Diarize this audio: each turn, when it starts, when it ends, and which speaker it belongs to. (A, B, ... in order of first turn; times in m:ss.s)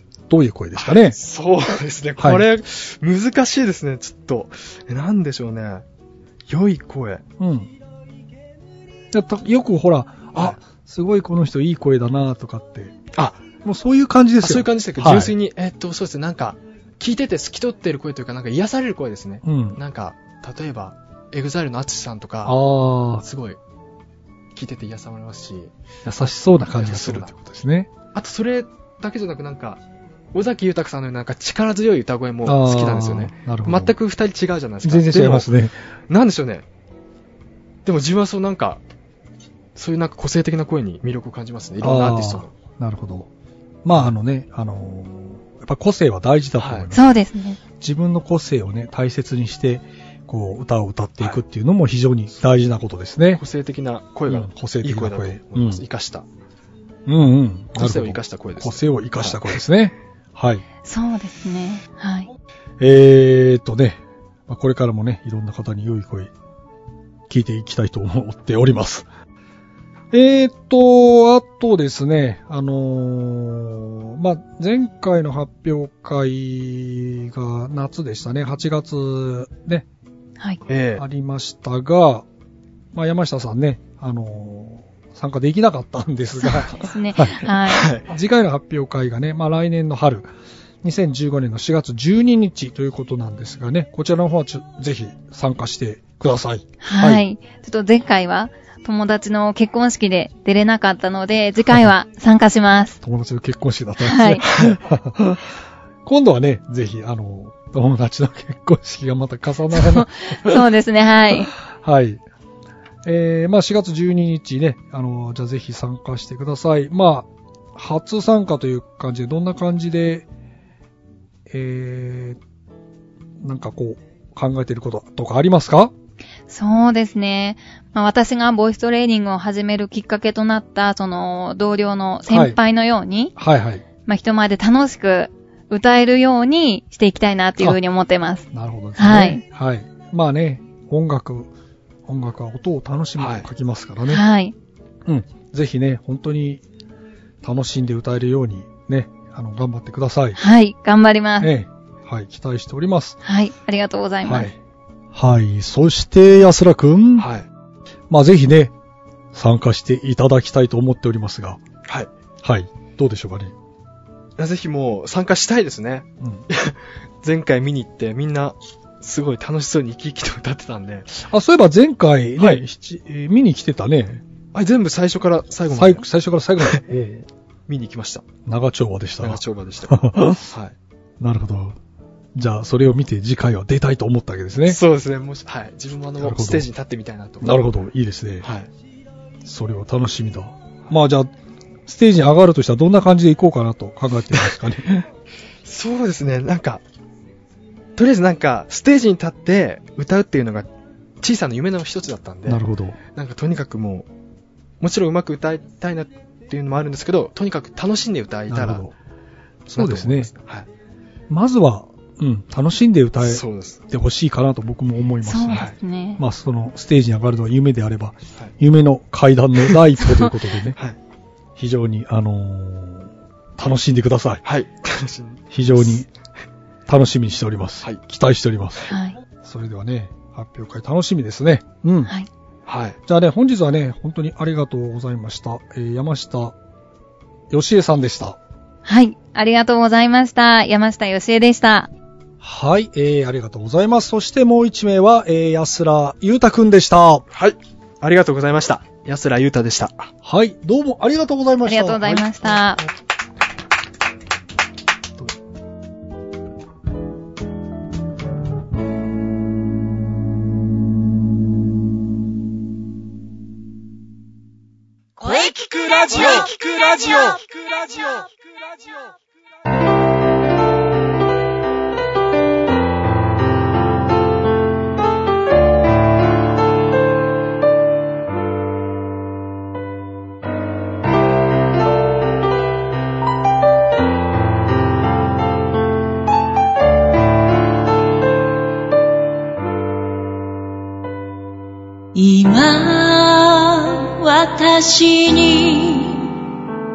0:00.3-0:01.2 A
0:00.8-0:05.8 B
0:02.2-0:02.4 A
0:06.5-0:07.2 B
0:07.4-0:07.7 A
0:09.1-0:13.0 A
0:13.1-0:13.4 B
0:13.6-0:15.3 A
0:14.4-0:22.6 B
0:19.4-0:19.8 A
0:22.4-0:23.2 A
0:23.2-0:23.6 B
0:24.5-0:25.7 B
0:26.0-0:27.9 A
0:26.7-0:27.3 B
0:28.1-0:29.8 B
0:30.3-0:35.5 B
0:32.4-0:33.9 A
0:34.8-0:35.8 A
0:36.1-0:36.6 B
0:37.8-0:38.8 B
0:39.8-0:42.5 B
0:41.8-0:43.3 A
0:43.8-0:47.1 A
0:46.6-0:46.9 B
0:46.9-0:47.6 C
0:47.8-0:53.4 A
0:53.4-0:56.2 B
0:54.3-0:55.8 A
0:57.1-1:00.6 A
0:57.8-0:59.6 B
1:00.8-1:02.3 C
1:02.8-1:06.3 A
1:07.3-1:09.1 A
1:10.1-1:19.8 A
1:20.7-1:21.0 B
1:21.0-1:22.2 A
1:22.9-1:30.3 A
1:26.4-1:27.9 C
1:27.7-1:28.1 B
1:30.8-1:37.2 A
1:36.8-1:43.0 C
1:43.0-1:45.5 A
1:44.0-1:44.4 C
1:44.5-1:44.8 B
1:46.0-1:50.6 A
1:49.7-1:51.5 C
1:51.7-1:52.2 A
1:53.0-2:00.3 A
2:01.5-2:02.4 A
2:03.4-2:05.9 A
2:06.5-2:13.3 C
2:12.3-2:12.6 A
2:13.4-2:13.8 A
2:14.0-2:19.4 C
2:18.5-2:21.5 A
2:22.0-2:24.2 A
2:23.2-2:23.5 B
2:24.1-2:24.5 C
2:25.0-2:26.6 A
2:27.4-2:30.4 A
2:30.4-2:31.5 C
2:31.4-2:33.2 A
2:33.2-2:34.5 C
2:34.2-2:34.5 A
2:35.1-2:37.3 A
2:37.2-2:37.5 B
2:38.1-2:38.7 A
2:39.3-2:41.6 A
2:42.4-2:43.5 A
2:44.4-2:51.1 B
2:51.1-2:54.2 A
2:52.4-2:52.6 B
2:54.5-2:56.0 B
2:55.7-2:57.3 A
2:57.7-2:58.2 B
2:58.5-3:00.4 A
2:59.2-3:00.8 B
3:01.2-3:01.8 A
3:02.3-3:04.8 A
3:04.7-3:07.6 B
3:06.2-3:06.7 A
3:07.4-3:08.5 A
3:08.4-3:08.7 B
3:09.4-3:11.3 A
3:11.8-3:15.1 A
3:15.6-3:16.8 B
3:18.0-3:20.7 B
3:21.2-3:22.6 B
3:22.5-3:23.0 A
3:23.1-3:24.1 B
3:24.8-3:28.8 B
3:28.5-3:28.9 A
3:29.7-3:30.3 A
3:29.7-3:30.7 B
3:31.3-3:40.8 A
3:33.2-3:33.8 B
3:35.2-3:36.2 C
3:41.6-3:44.4 A
3:44.4-3:46.0 B
3:45.5-3:46.1 A
3:46.9-3:52.1 A
3:48.9-3:49.2 C
3:52.7-3:53.0 B
3:53.1-3:56.5 A
3:57.5-3:58.4 A
3:58.8-4:01.9 C
4:02.4-4:07.2 A
4:07.3-4:10.1 B
4:10.2-4:12.9 A
4:11.6-4:12.8 C
4:25.2-4:28.3 D
4:52.1-4:56.3 E